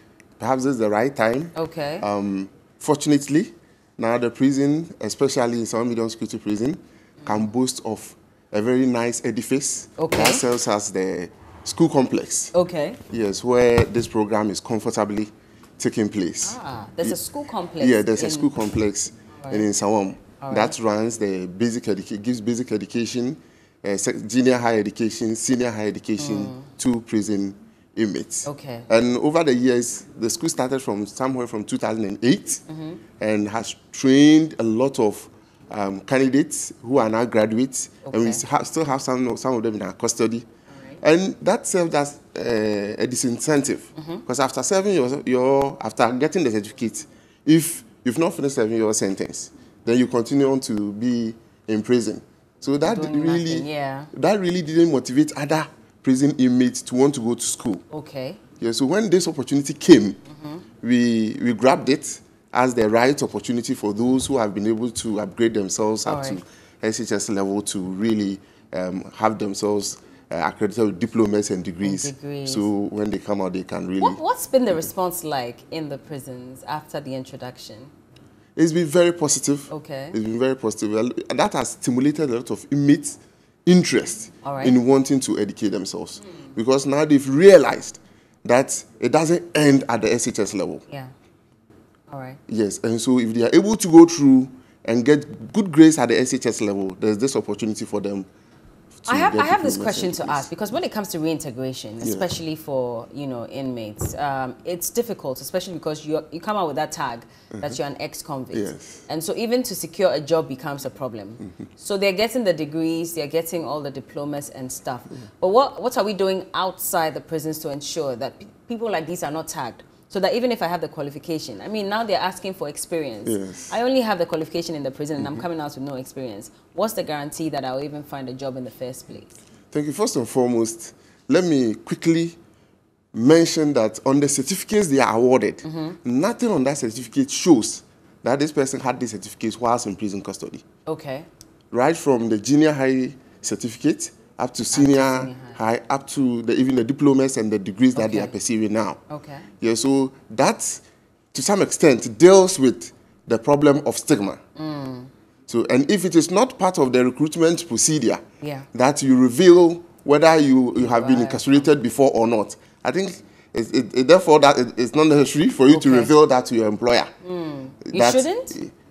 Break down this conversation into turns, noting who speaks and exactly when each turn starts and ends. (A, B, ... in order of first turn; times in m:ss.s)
0:00.4-0:12.5 A
0:01.5-0:02.1 B
0:10.0-0:10.4 B
0:12.5-0:13.0 B
0:13.1-0:17.2 A
0:16.4-0:18.5 B
0:17.8-0:32.6 A
0:19.3-0:19.7 B
0:20.4-0:20.8 B
0:26.2-0:26.7 B
0:28.4-0:28.9 B
0:32.7-0:33.0 B
0:33.2-0:40.4 A
0:38.0-0:38.4 B
0:41.0-0:57.8 A
0:44.0-0:44.2 B
0:52.8-0:54.1 B
0:57.9-0:58.4 B
0:58.6-1:00.2 A
1:00.3-1:00.6 B
1:00.8-1:14.2 A
1:06.0-1:06.4 B
1:11.8-1:12.7 B
1:14.0-1:17.9 B
1:18.6-1:30.8 A
1:19.7-1:20.2 B
1:24.4-1:24.8 B
1:32.1-1:32.4 B
1:32.5-1:38.3 A
1:39.0-1:40.5 A
1:39.1-2:09.3 B
1:42.0-1:42.3 A
1:48.5-1:49.1 A
2:03.2-2:03.8 A
2:05.2-2:05.4 A
2:09.7-2:12.4 A
2:13.1-2:20.6 A
2:15.6-2:16.0 B
2:20.8-2:21.3 B
2:21.7-2:29.0 A
2:24.7-2:25.6 B
2:28.0-2:28.3 B
2:29.1-2:29.5 B
2:29.6-2:30.8 A
2:31.3-2:34.4 A
2:34.6-2:35.1 B
2:35.5-2:38.2 A
2:38.4-2:38.7 B
2:38.7-2:47.1 A
2:40.8-2:41.7 B
2:45.7-2:46.1 B
2:47.2-2:48.6 B
2:47.8-2:48.7 A